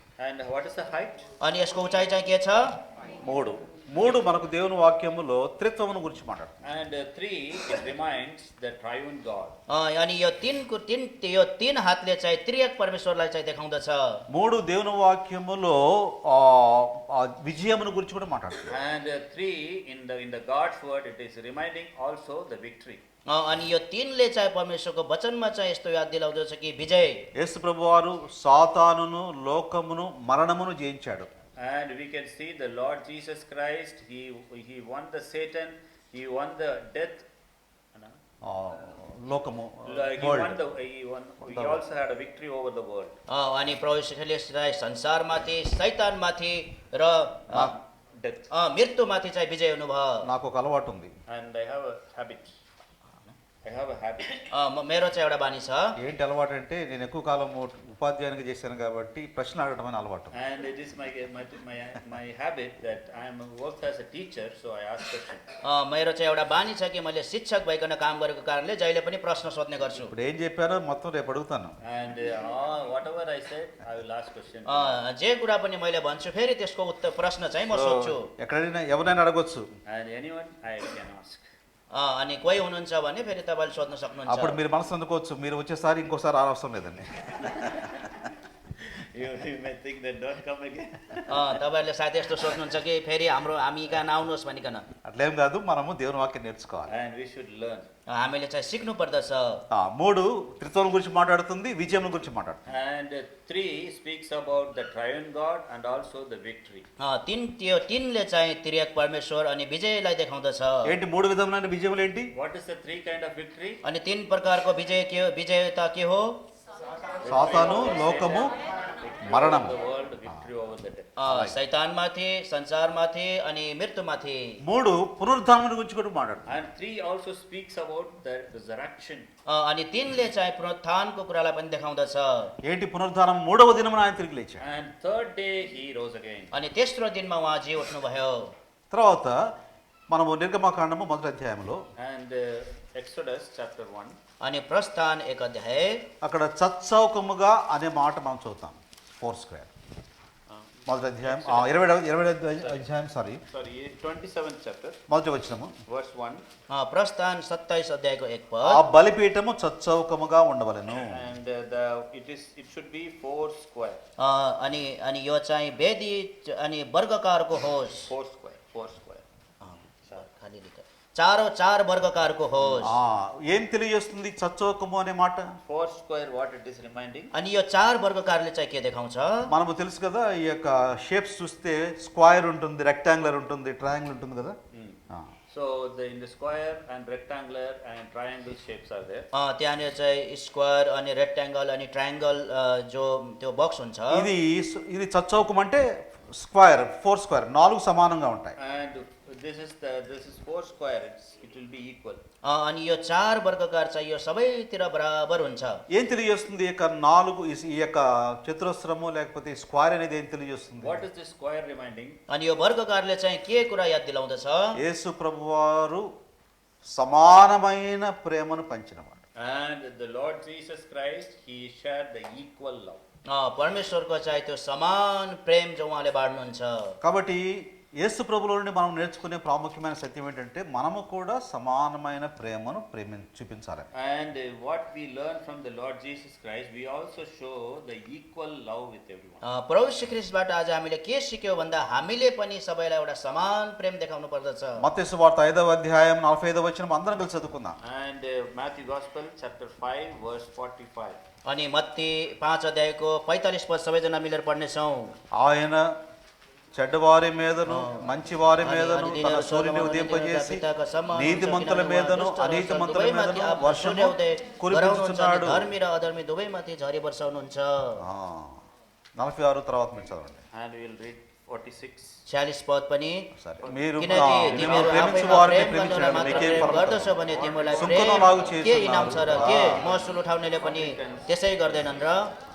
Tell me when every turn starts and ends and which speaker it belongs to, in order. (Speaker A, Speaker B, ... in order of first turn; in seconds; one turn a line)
Speaker A: 0.2-1.3
Speaker B: 1.4-2.6
Speaker C: 3.2-6.6
Speaker A: 6.6-9.6
Speaker B: 9.7-14.2
Speaker C: 14.3-18.8
Speaker A: 18.7-23.0
Speaker B: 23.3-27.2
Speaker C: 27.4-31.3
Speaker A: 31.6-37.3
Speaker C: 38.4-40.6
Speaker A: 39.9-43.1
Speaker C: 41.4-41.8
Speaker B: 43.3-47.7
Speaker A: 48.2-48.5
Speaker B: 48.5-50.2
Speaker C: 50.2-51.1
Speaker A: 51.3-52.6
Speaker A: 53.6-54.5
Speaker B: 54.5-56.0
Speaker C: 56.0-60.4
Speaker A: 60.3-65.5
Speaker B: 65.6-70.1
Speaker C: 70.0-71.8
Speaker A: 71.8-75.0
Speaker B: 74.7-78.3
Speaker C: 77.7-79.7
Speaker A: 79.9-81.5
Speaker B: 81.9-84.6
Speaker C: 84.3-87.5
Speaker A: 87.4-88.2
Speaker A: 88.8-91.6
Speaker B: 91.3-94.9
Speaker C: 95.0-96.9
Speaker A: 96.9-97.9
Speaker B: 98.1-99.6
Speaker C: 99.7-102.6
Speaker A: 102.7-106.8
Speaker B: 107.0-110.9
Speaker C: 110.8-112.3
Speaker A: 112.3-113.8
Speaker B: 113.8-116.4
Speaker A: 117.2-121.2
Speaker C: 117.3-118.5
Speaker C: 119.2-119.8
Speaker B: 121.2-124.6
Speaker C: 121.2-121.6
Speaker C: 124.7-126.5
Speaker A: 126.5-129.3
Speaker B: 129.5-132.5
Speaker C: 132.7-134.6
Speaker A: 134.6-136.6
Speaker B: 136.5-138.5
Speaker C: 138.9-139.4
Speaker C: 140.1-141.8
Speaker A: 142.0-144.2
Speaker B: 144.4-146.0
Speaker C: 146.2-149.7
Speaker A: 150.5-152.9
Speaker C: 150.9-153.4
Speaker A: 153.5-155.0
Speaker C: 155.1-155.7
Speaker A: 155.9-156.4
Speaker B: 156.7-158.8
Speaker C: 158.6-161.2
Speaker A: 161.0-164.0
Speaker B: 164.2-168.1
Speaker A: 168.1-169.2
Speaker B: 169.6-172.9
Speaker A: 172.6-172.9
Speaker C: 172.8-175.6
Speaker A: 175.7-177.3
Speaker B: 177.3-179.5
Speaker C: 179.5-184.6
Speaker A: 184.7-189.3
Speaker B: 189.3-194.3
Speaker C: 194.1-198.6
Speaker A: 198.6-202.2
Speaker B: 202.4-205.8
Speaker C: 205.9-211.0
Speaker A: 210.8-212.2
Speaker B: 212.3-214.8
Speaker C: 214.8-216.1
Speaker C: 216.9-219.2
Speaker A: 219.4-223.0
Speaker B: 223.3-226.9
Speaker C: 227.0-233.9
Speaker A: 233.9-239.4
Speaker B: 239.4-244.8
Speaker C: 244.8-247.8
Speaker A: 247.8-251.2
Speaker B: 251.5-255.1
Speaker C: 255.3-255.9
Speaker C: 256.8-260.6
Speaker B: 258.6-268.0
Speaker C: 261.1-265.7
Speaker C: 268.0-268.6
Speaker C: 269.2-270.4
Speaker A: 270.5-272.2
Speaker B: 272.3-273.3
Speaker C: 273.4-277.2
Speaker A: 273.6-275.2
Speaker B: 274.0-282.3
Speaker A: 277.4-277.8
Speaker C: 277.8-280.0
Speaker A: 280.6-281.3